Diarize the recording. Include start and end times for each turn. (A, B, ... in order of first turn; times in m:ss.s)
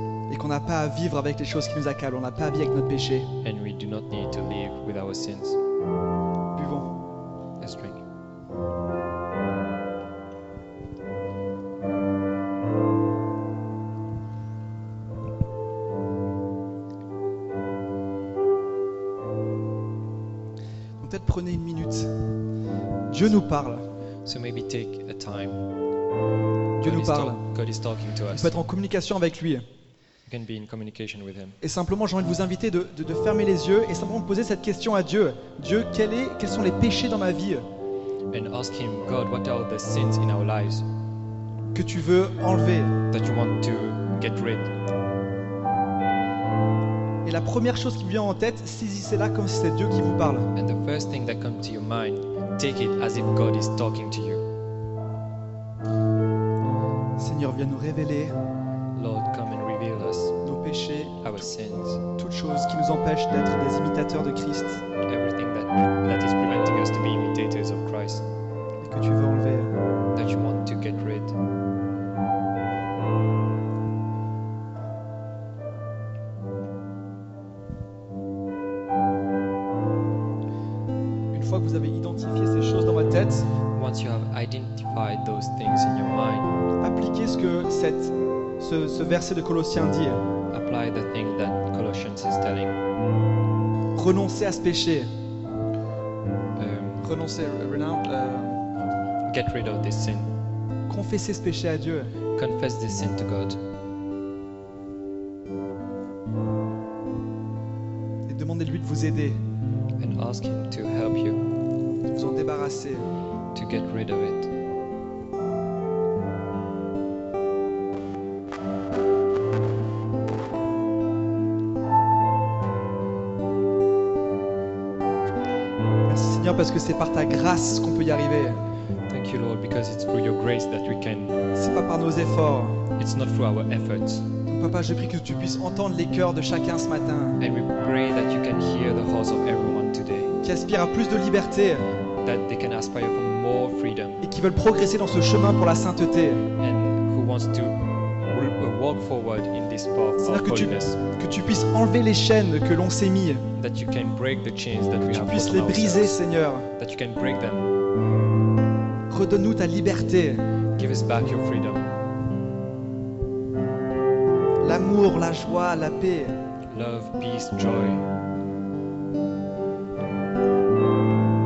0:00.3-0:03.3 A
0:03.4-0:05.6 B
0:06.5-0:06.9 A
0:07.6-0:08.0 B
0:21.0-0:22.2 A
0:23.1-0:23.8 A
0:24.2-0:25.6 B
0:26.8-0:27.4 A
0:26.8-0:28.6 B
0:28.3-0:29.6 A
0:30.3-0:31.6 B
0:31.6-0:37.6 A
0:38.3-0:40.9 B
0:41.7-0:43.0 A
0:43.1-0:44.7 B
0:47.2-0:50.5 A
0:50.6-0:54.4 B
0:57.2-0:58.4 A
0:59.0-1:00.4 B
1:00.4-1:01.4 A
1:01.2-1:02.0 B
1:02.2-1:04.8 A
1:05.0-1:08.3 B
1:08.8-1:09.7 A
1:10.1-1:11.4 B
1:21.3-1:23.5 A
1:23.7-1:26.5 B
1:26.8-1:30.2 A
1:30.5-1:32.8 B
1:34.0-1:35.1 A
1:36.6-1:37.1 B
1:37.0-1:38.7 A
1:39.3-1:40.3 B
1:40.9-1:42.1 A
1:42.4-1:43.6 B
1:48.3-1:49.4 A
1:50.0-1:51.4 B
1:52.1-1:53.1 A
1:53.5-1:54.5 B
2:06.1-2:08.6 A
2:09.1-2:11.4 B
2:11.6-2:12.8 A
2:13.0-2:14.3 B
2:14.5-2:17.4 A
2:17.4-2:20.3 B
2:20.4-2:21.9 A
2:22.2-2:24.3 B
2:24.2-2:26.5 A
2:26.6-2:31.0 B
2:30.2-2:33.5 A
2:33.6-2:36.2 B
2:35.1-2:36.7 A
2:36.7-2:37.7 B
2:39.1-2:40.4 A
2:40.8-2:41.9 B
2:44.6-2:46.4 A
2:46.7-2:48.1 B